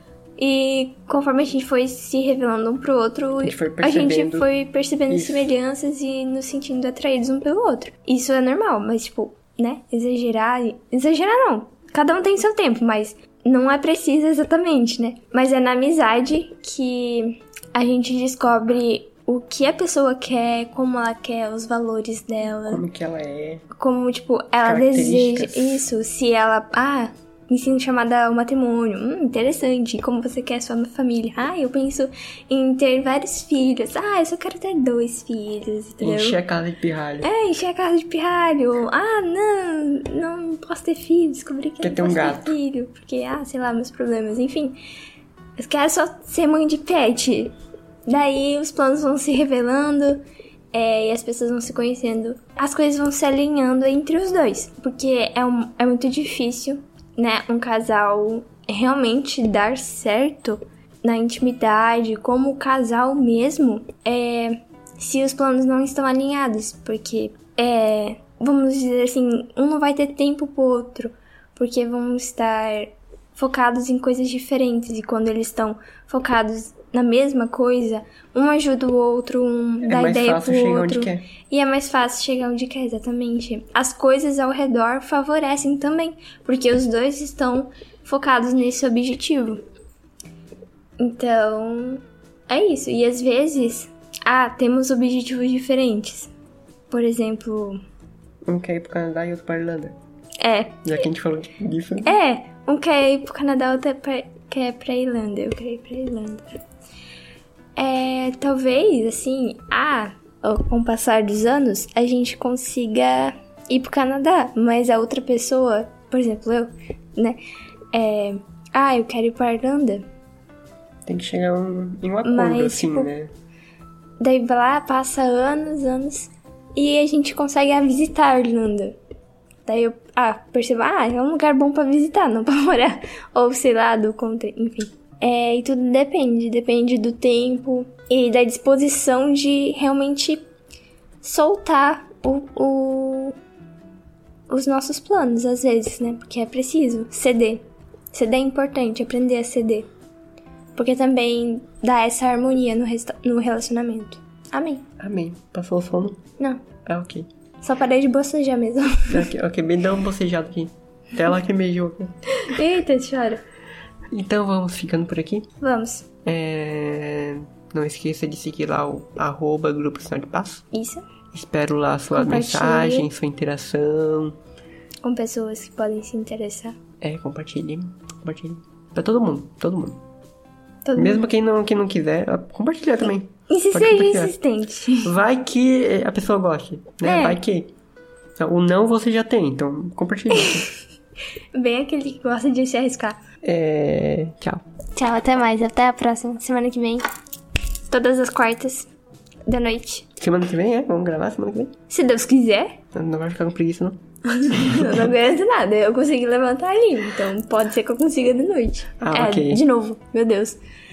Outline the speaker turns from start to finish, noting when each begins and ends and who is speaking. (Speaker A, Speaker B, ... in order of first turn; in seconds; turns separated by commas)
Speaker A: 0.4-22.8, Speaker B: 3.4-4.5, Speaker B: 5.1-5.5, Speaker B: 22.6-23.6, Speaker A: 23.7-36.4, Speaker B: 24.6-25.8, Speaker B: 36.0-37.3, Speaker A: 37.2-44.8, Speaker B: 41.8-42.5, Speaker A: 45.6-47.5, Speaker A: 48.0-89.6, Speaker B: 79.8-81.3, Speaker A: 91.0-96.3, Speaker A: 96.9-97.8, Speaker B: 98.4-100.0, Speaker A: 100.4-100.8, Speaker B: 100.8-102.1, Speaker A: 102.0-106.6, Speaker A: 107.8-117.4, Speaker A: 117.9-120.0, Speaker B: 121.0-123.3, Speaker A: 122.2-123.1, Speaker A: 124.2-128.9, Speaker A: 129.7-140.5, Speaker A: 141.2-143.4, Speaker A: 144.5-149.9, Speaker A: 150.8-154.8, Speaker B: 155.0-156.2, Speaker B: 156.8-157.3, Speaker A: 157.6-159.3, Speaker B: 159.1-162.1, Speaker A: 162.4-163.4, Speaker B: 164.1-165.5, Speaker A: 165.6-166.1, Speaker B: 166.2-170.7, Speaker A: 170.7-171.0, Speaker B: 171.3-174.4, Speaker A: 172.1-173.1, Speaker A: 175.0-176.8, Speaker B: 177.0-180.0, Speaker A: 180.8-181.2, Speaker B: 180.9-184.3, Speaker A: 183.5-185.1, Speaker B: 185.0-187.7, Speaker A: 187.0-187.4, Speaker B: 188.4-190.7, Speaker A: 191.5-193.2, Speaker B: 193.4-194.6, Speaker A: 194.9-197.0, Speaker A: 197.9-198.9, Speaker A: 199.5-200.1, Speaker B: 200.2-201.7, Speaker A: 201.9-202.8, Speaker B: 202.9-204.0, Speaker A: 204.2-210.6, Speaker B: 204.5-205.1, Speaker B: 209.0-209.6